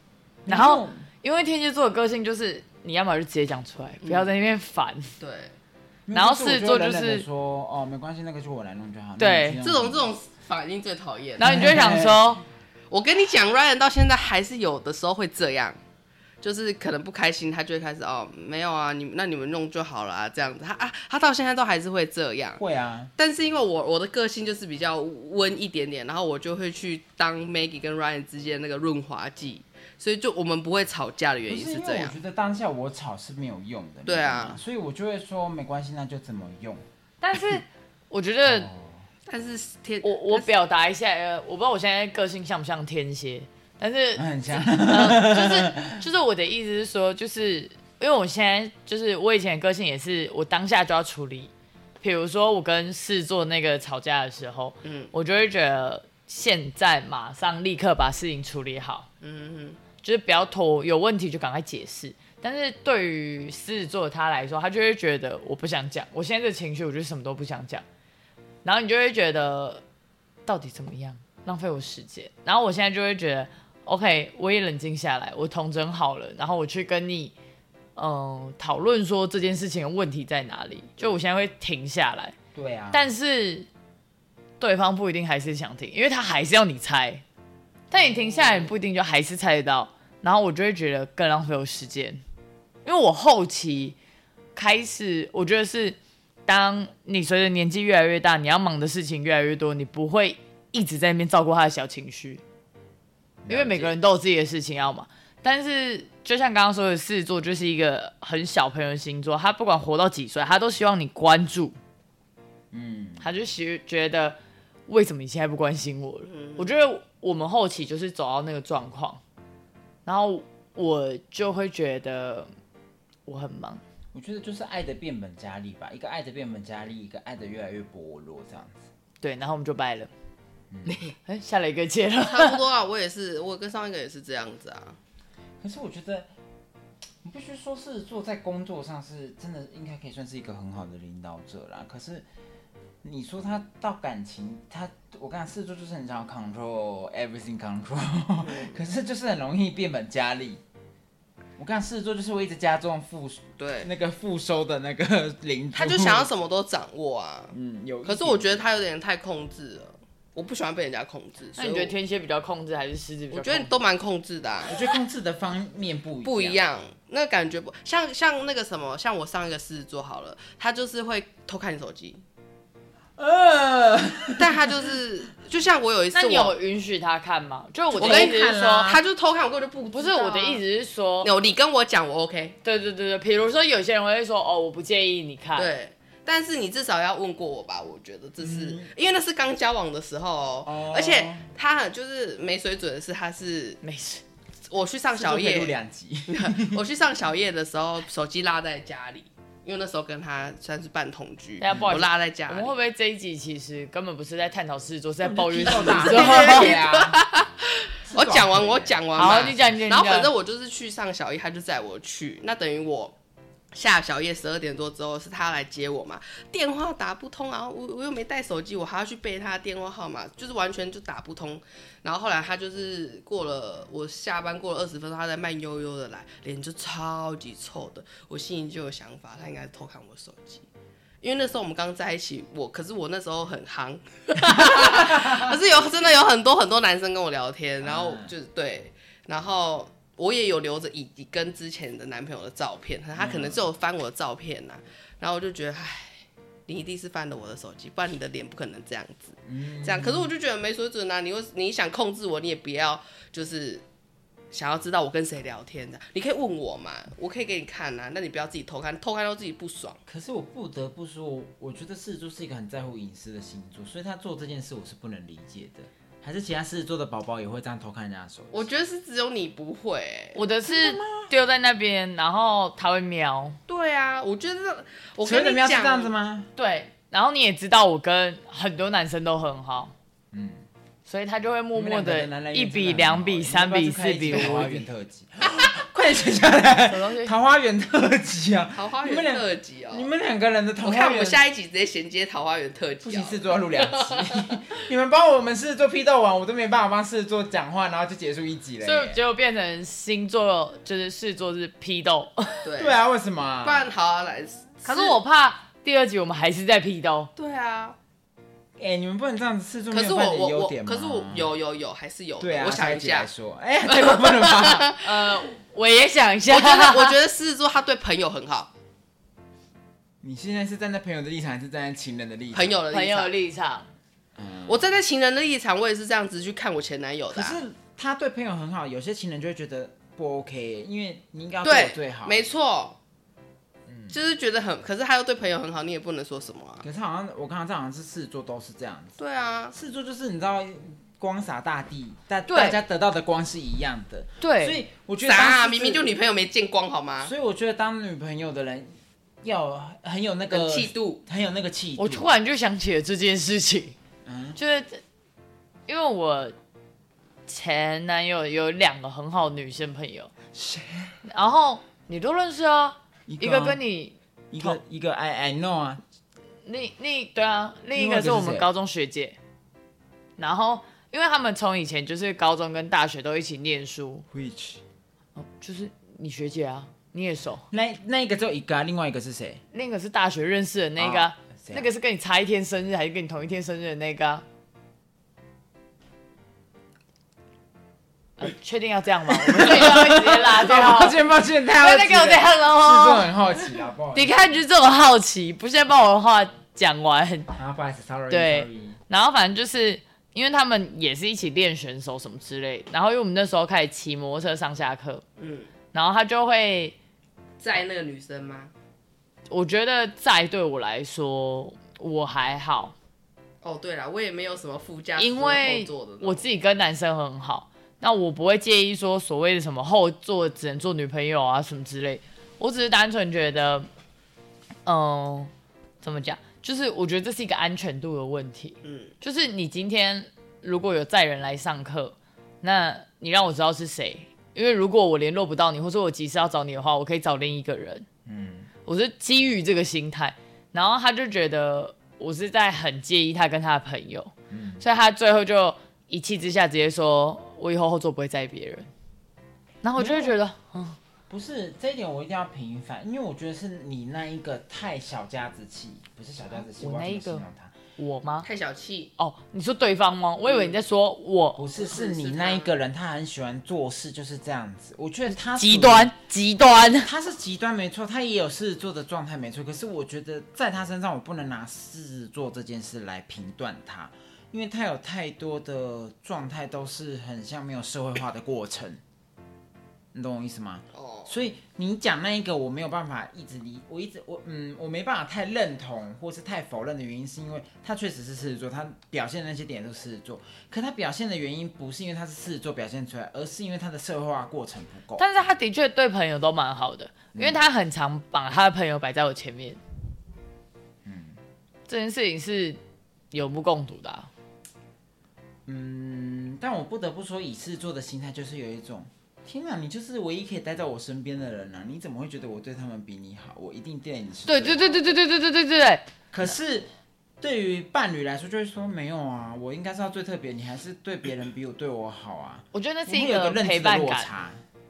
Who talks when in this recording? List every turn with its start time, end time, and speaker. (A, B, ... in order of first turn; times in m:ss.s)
0:00.4-0:01.0 A
0:00.5-0:05.1 B
0:04.0-0:04.3 C
0:05.2-0:05.5 C
0:06.1-0:10.1 A
0:06.1-0:07.2 B
0:09.2-0:09.6 B
0:09.6-0:11.6 C
0:11.4-0:12.4 B
0:11.4-0:12.2 A
0:12.9-0:15.8 C
0:16.4-0:22.6 C
0:22.6-0:23.1 A
0:23.2-0:32.2 C
0:31.5-0:37.6 A
0:34.0-0:34.6 C
0:37.2-0:38.7 B
0:38.4-0:39.0 A
0:39.3-0:40.5 C
0:40.0-0:59.1 B
0:44.2-0:46.0 A
0:54.8-0:55.1 C
0:59.2-0:59.8 C
1:00.0-1:07.8 B
1:08.6-1:09.8 B
1:10.4-1:17.3 B
1:18.0-1:22.4 B
1:22.5-1:23.0 A
1:22.9-1:23.7 B
1:24.6-1:27.2 B
1:27.9-1:32.2 B
1:28.0-1:28.7 C
1:32.8-1:34.0 B
1:34.5-1:42.4 B
1:43.4-1:43.9 A
1:43.5-1:51.8 B
1:52.7-1:53.3 A
1:53.2-1:59.2 B
1:56.3-1:56.8 C
2:00.0-2:02.5 B
2:03.2-2:03.8 B
2:04.1-2:08.9 A
2:09.2-2:10.1 B
2:10.7-2:11.0 A
2:11.1-2:12.6 B
2:12.2-2:15.0 C
2:15.6-2:16.3 A
2:17.2-2:22.3 A
2:23.0-2:30.6 A
2:28.4-2:28.8 C
2:31.6-2:36.3 A
2:33.6-2:33.9 C
2:35.7-2:41.9 C
2:37.5-2:38.6 A
2:41.6-2:43.7 B
2:43.3-2:44.9 C
2:44.7-2:46.6 A
2:46.2-2:52.2 C
2:53.2-2:54.6 A
2:54.4-2:56.6 C
2:56.1-2:58.9 B
2:57.9-2:59.0 A
2:58.0-3:00.6 C
2:59.9-3:01.3 B
3:01.2-3:02.5 C
3:02.6-3:05.7 B
3:05.6-3:13.8 C
3:08.4-3:08.9 A
3:10.6-3:11.5 A
3:13.8-3:14.2 B
3:14.7-3:15.7 C
3:15.1-3:16.8 A
3:16.3-3:22.7 C
3:21.6-3:26.8 B
3:21.7-3:21.9 A
3:25.2-3:27.2 A
3:25.7-3:33.1 C
3:28.0-3:29.8 A
3:29.2-3:30.3 B
3:33.7-3:50.6 C
3:51.2-4:13.8 C
3:54.5-3:55.5 A
3:57.8-3:58.3 A
4:03.2-4:03.6 A
4:09.4-4:10.3 A
4:14.5-4:20.0 C
4:20.1-4:28.7 A
4:28.5-4:30.4 C
4:30.3-4:33.6 B
4:30.6-4:31.3 A
4:33.7-4:36.1 C
4:35.2-4:36.5 A
4:36.6-4:39.9 B
4:40.3-4:40.6 A
4:41.0-4:44.8 B
4:41.7-4:51.4 A
4:46.8-4:47.3 B
4:48.7-4:50.1 C
4:50.8-4:54.6 C
4:53.0-4:59.2 A
4:58.8-5:02.6 B
5:02.6-5:03.0 C
5:02.8-5:03.9 A
5:03.6-5:05.2 C
5:04.8-5:07.3 B
5:07.4-5:08.0 C
5:08.8-5:11.5 A
5:09.9-5:13.3 C
5:12.4-5:14.9 A
5:13.9-5:15.4 C
5:15.0-5:17.2 B
5:16.5-5:18.7 C
5:20.2-5:22.8 A
5:22.5-5:23.3 C
5:22.9-5:23.9 B
5:24.4-5:25.0 A
5:24.7-5:27.6 C
5:27.3-5:32.4 A
5:31.6-5:33.0 C
5:33.9-5:34.2 A
5:34.1-5:36.8 C
5:36.8-5:39.2 A
5:39.2-5:39.8 C
5:39.7-5:46.1 A
5:42.5-5:42.8 B
5:44.4-5:44.8 B
5:45.2-5:47.3 C
5:47.2-5:52.3 A
5:50.5-5:51.2 C
5:52.0-5:54.0 B
5:54.2-5:54.6 A
5:54.6-5:55.0 B
5:55.9-5:56.6 B
5:57.5-6:00.3 B
6:00.5-6:01.2 A
6:01.3-6:04.8 B
6:03.3-6:03.8 A
6:04.5-6:06.0 A
6:06.6-6:09.4 B
6:07.9-6:08.7 A
6:10.4-6:14.2 B
6:14.3-6:14.8 A
6:15.4-6:17.6 B
6:17.7-6:19.6 A
6:19.7-6:24.4 B
6:21.0-6:21.9 A
6:28.4-6:31.2 B
6:29.3-6:34.6 A
6:31.7-6:37.5 B
6:37.5-6:39.0 A
6:38.3-6:45.2 B
6:45.4-6:45.7 C
6:45.9-6:47.0 B
6:47.6-6:48.7 C
6:49.5-6:52.9 B
6:53.6-6:56.4 C
6:55.2-7:03.9 B
7:04.8-7:05.5 B
7:06.0-7:18.0 B
7:08.8-7:09.1 C
7:18.2-7:18.7 A
7:18.8-7:28.9 B
7:24.5-7:24.8 A
7:29.8-7:31.0 B
7:30.0-7:30.4 A
7:31.3-7:37.8 A
7:36.8-7:37.4 B
7:38.0-7:38.5 B
7:38.4-7:39.1 C
7:39.2-7:41.6 B
7:40.4-7:40.8 C
7:41.5-7:46.1 A
7:41.8-7:42.7 C
7:45.4-7:47.1 B
7:47.0-7:59.0 A
8:00.1-8:15.2 A
8:00.9-8:01.4 C
8:15.2-8:19.8 B
8:17.3-8:17.6 A
8:21.0-8:21.4 A
8:21.9-8:22.8 B
8:23.3-8:24.3 B
8:25.6-8:35.0 A
8:34.5-8:36.1 B
8:36.3-8:44.6 A
8:42.7-8:44.3 B